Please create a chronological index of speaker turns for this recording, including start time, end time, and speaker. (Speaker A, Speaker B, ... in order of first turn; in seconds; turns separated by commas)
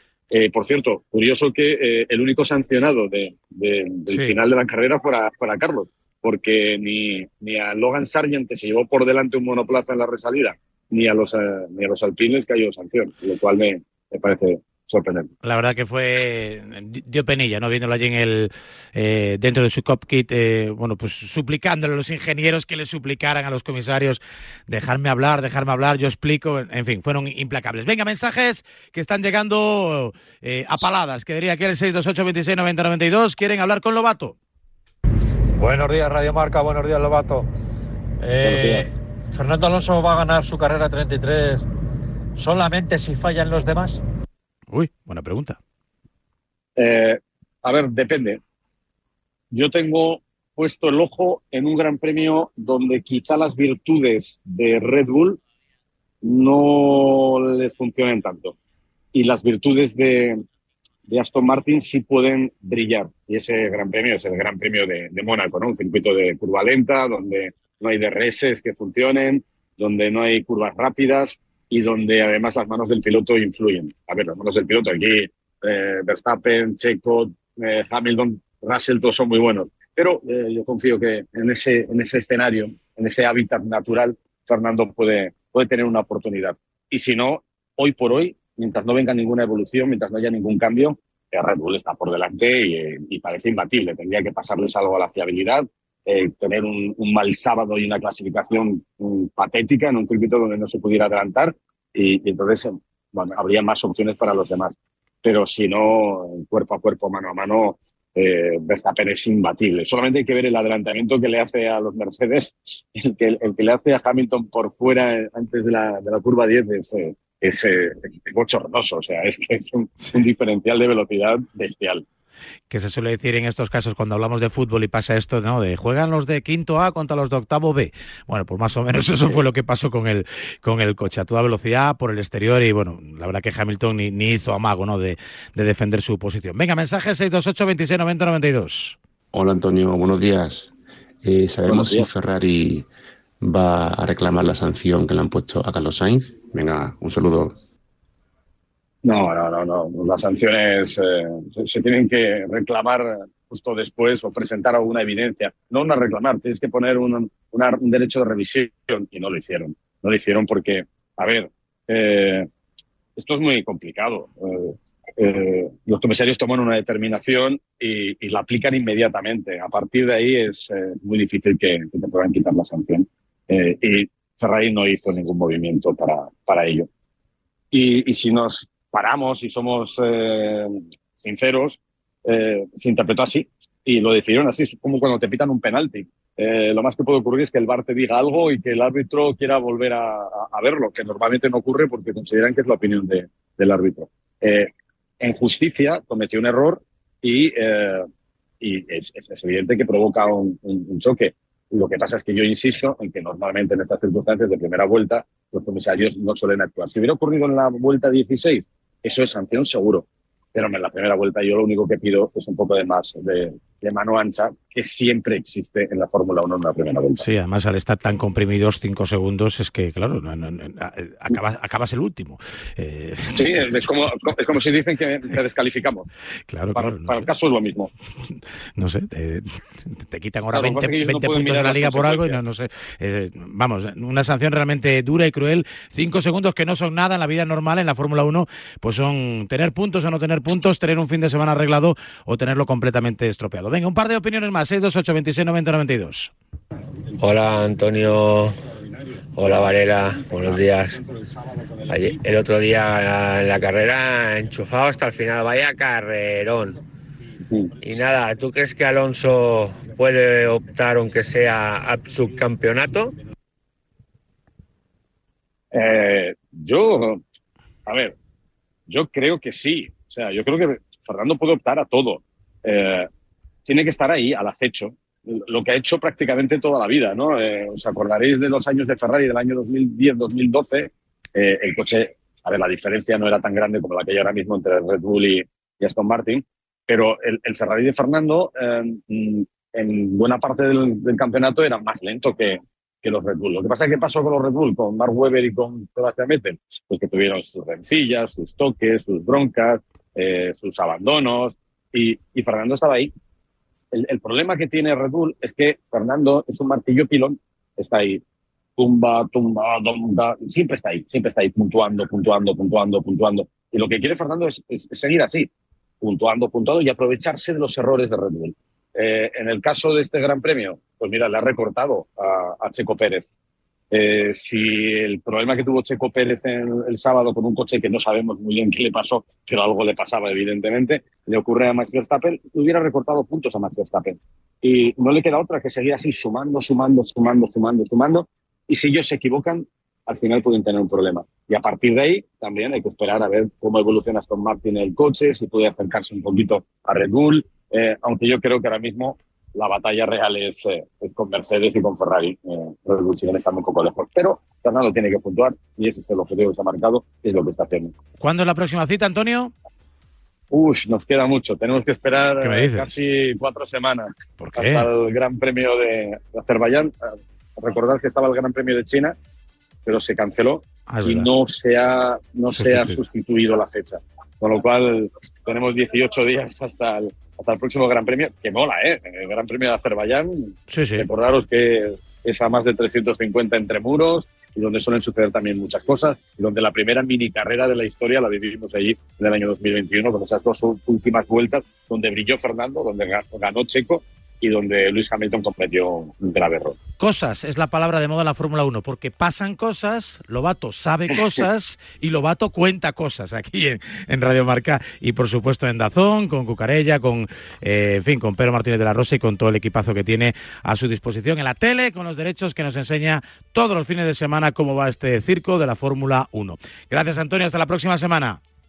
Speaker A: 0.3-15.3, Speaker B: 4.1-4.3, Speaker B: 15.4-34.3, Speaker C: 35.6-37.5, Speaker C: 38.2-38.8, Speaker A: 38.4-38.9, Speaker C: 39.3-41.6, Speaker C: 42.4-44.0, Speaker B: 44.7-45.6, Speaker A: 46.8-48.4, Speaker A: 49.5-55.4, Speaker A: 56.2-58.5, Speaker A: 59.1-60.4, Speaker A: 61.0-122.0, Speaker B: 122.7-138.9, Speaker D: 139.3-142.9, Speaker A: 141.7-142.1, Speaker D: 143.4-147.6, Speaker A: 149.0-162.5, Speaker A: 163.2-176.9, Speaker A: 177.7-194.7, Speaker A: 195.2-198.1, Speaker A: 198.6-217.3, Speaker B: 217.2-223.9, Speaker A: 223.3-226.1, Speaker B: 226.5-227.2, Speaker A: 226.7-227.9, Speaker B: 228.3-246.3, Speaker A: 230.5-232.4, Speaker A: 247.0-252.6, Speaker E: 247.2-248.5, Speaker E: 249.3-251.0, Speaker E: 251.9-256.8, Speaker A: 257.5-257.8, Speaker E: 257.8-263.1, Speaker A: 265.7-267.2, Speaker A: 267.9-268.1, Speaker A: 268.9-273.1, Speaker A: 273.6-303.1, Speaker A: 303.9-308.2, Speaker A: 308.8-323.2, Speaker A: 323.9-357.9, Speaker B: 358.2-359.5, Speaker A: 360.5-366.9, Speaker B: 362.4-362.9, Speaker B: 364.4-364.9, Speaker A: 367.6-369.1, Speaker A: 369.8-396.8, Speaker B: 370.9-371.3, Speaker B: 372.5-372.9, Speaker B: 380.7-381.1, Speaker B: 397.0-418.4